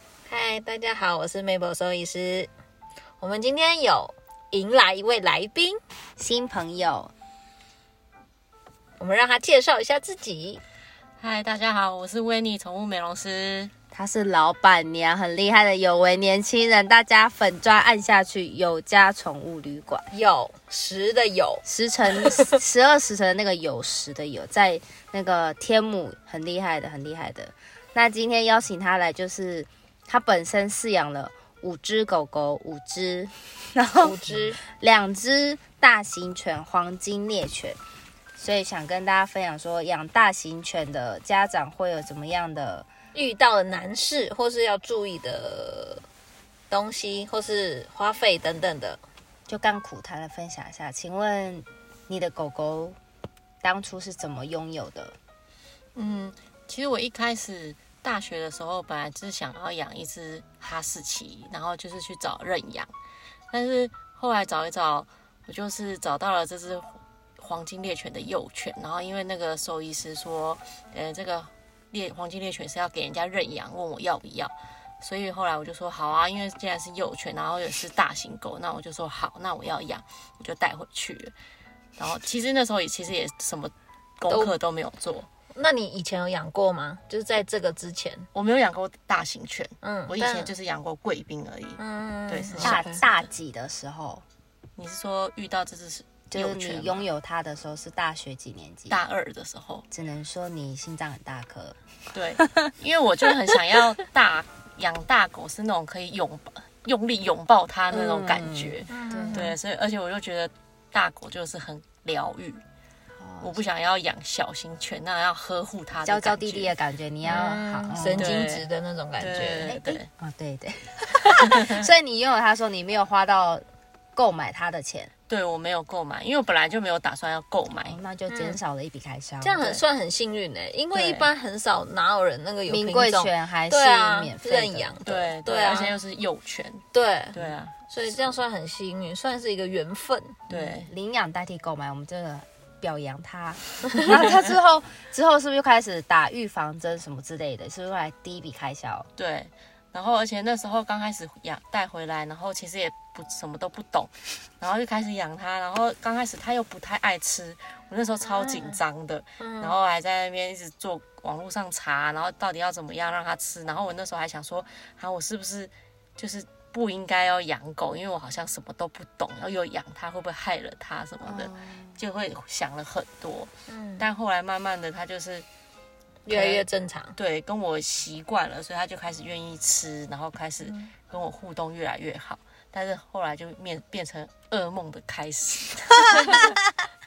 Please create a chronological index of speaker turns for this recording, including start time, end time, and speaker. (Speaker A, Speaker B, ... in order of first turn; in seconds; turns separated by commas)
Speaker A: 0.3-2.5, Speaker A: 3.2-5.8, Speaker B: 6.2-7.1, Speaker A: 9.0-10.6, Speaker C: 11.2-13.7, Speaker B: 13.9-20.1, Speaker A: 20.1-21.6, Speaker B: 21.6-37.8, Speaker A: 22.1-22.4, Speaker A: 34.0-34.6, Speaker B: 38.4-42.9, Speaker A: 43.1-46.0, Speaker A: 46.7-49.0, Speaker B: 49.5-53.0, Speaker B: 53.6-55.2, Speaker C: 56.0-62.9, Speaker C: 63.5-81.3, Speaker C: 82.0-85.3, Speaker A: 85.5-88.3, Speaker C: 88.3-93.2, Speaker A: 89.8-90.5, Speaker A: 91.8-92.8, Speaker B: 92.6-94.2, Speaker C: 94.8-97.0, Speaker B: 96.3-99.0, Speaker C: 98.9-99.9, Speaker B: 99.9-101.8, Speaker C: 102.1-112.6, Speaker B: 107.9-109.5, Speaker A: 108.9-109.6, Speaker B: 113.2-113.6, Speaker C: 113.4-116.7, Speaker B: 116.0-118.4, Speaker A: 117.2-119.8, Speaker C: 118.2-118.7, Speaker C: 119.2-120.1, Speaker B: 119.6-123.6, Speaker C: 121.5-121.8, Speaker B: 124.2-125.1, Speaker C: 125.3-128.0, Speaker B: 127.8-129.8, Speaker A: 128.3-128.6, Speaker A: 129.4-136.0, Speaker C: 130.9-131.3, Speaker B: 132.7-134.9, Speaker C: 135.0-138.3, Speaker A: 136.9-140.5, Speaker C: 140.5-140.9, Speaker B: 140.9-149.1, Speaker C: 149.2-175.5, Speaker A: 158.4-158.8, Speaker A: 159.4-159.8, Speaker B: 171.2-172.0, Speaker A: 173.7-174.1, Speaker A: 176.2-177.2, Speaker C: 176.3-186.6